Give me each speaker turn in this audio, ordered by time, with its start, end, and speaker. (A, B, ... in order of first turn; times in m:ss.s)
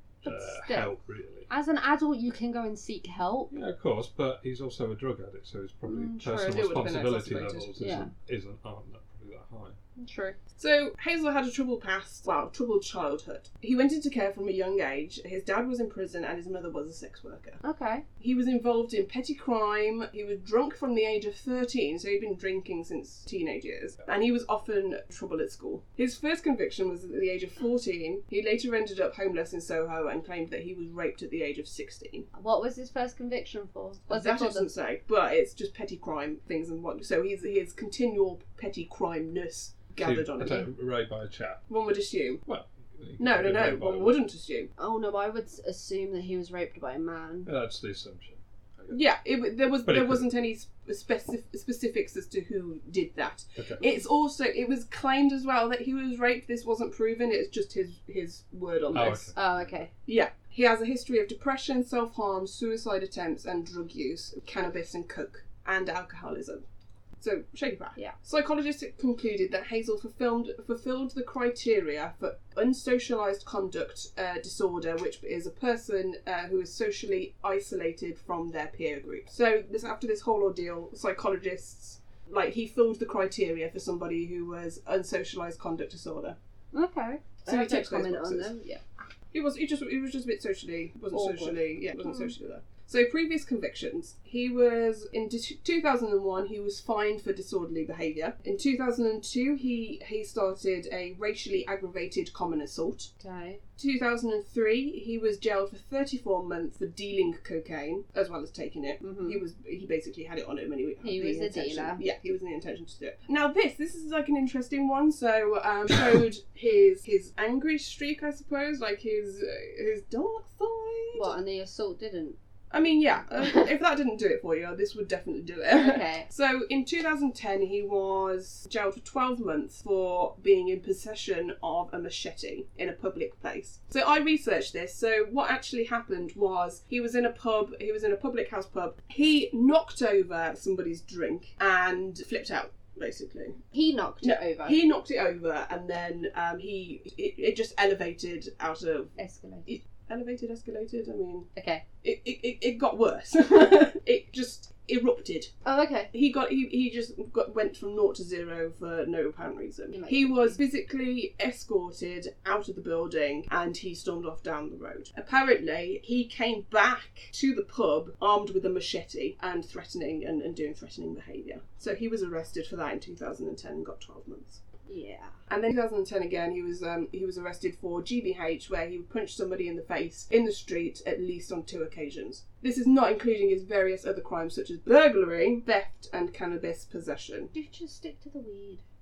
0:00.2-0:01.5 A
0:00.2-0:00.9 B
0:01.5-0:03.5 B
0:03.5-0:09.8 A
0:05.8-0:06.6 B
0:06.4-0:07.7 C
0:07.8-0:08.1 B
0:10.0-0:10.4 B
0:10.5-0:17.6 C
0:17.6-0:18.0 B
0:18.2-0:32.3 C
0:32.3-0:34.7 B
0:34.1-0:40.7 C
0:40.0-0:41.7 A
0:41.7-0:42.4 C
0:42.4-0:44.2 A
0:43.2-0:44.7 C
0:44.8-0:47.5 B
0:47.4-0:49.0 A
0:48.9-0:59.3 C
0:49.8-0:50.3 A
0:53.6-0:53.8 A
0:58.9-0:59.9 A
0:59.3-0:59.9 B
1:00.0-1:06.6 C
1:07.2-1:26.4 C
1:26.7-1:28.8 B
1:27.4-1:28.5 C
1:29.3-1:43.1 C
1:31.1-1:32.3 B
1:43.2-1:43.6 B
1:43.8-2:01.3 C
1:49.0-1:49.4 B
1:51.0-1:52.0 B
2:01.1-2:02.4 B
2:02.7-2:23.6 C
2:05.7-2:06.3 B
2:23.7-2:24.8 B
2:24.2-2:29.1 C
2:29.2-2:29.7 B
2:29.6-2:31.5 C
2:31.5-2:31.8 B
2:32.0-2:35.5 C
2:35.6-2:36.1 B
2:36.1-2:54.6 C
2:39.9-2:40.6 B
2:54.9-2:55.3 B
2:55.5-3:07.5 C
3:07.5-3:08.8 B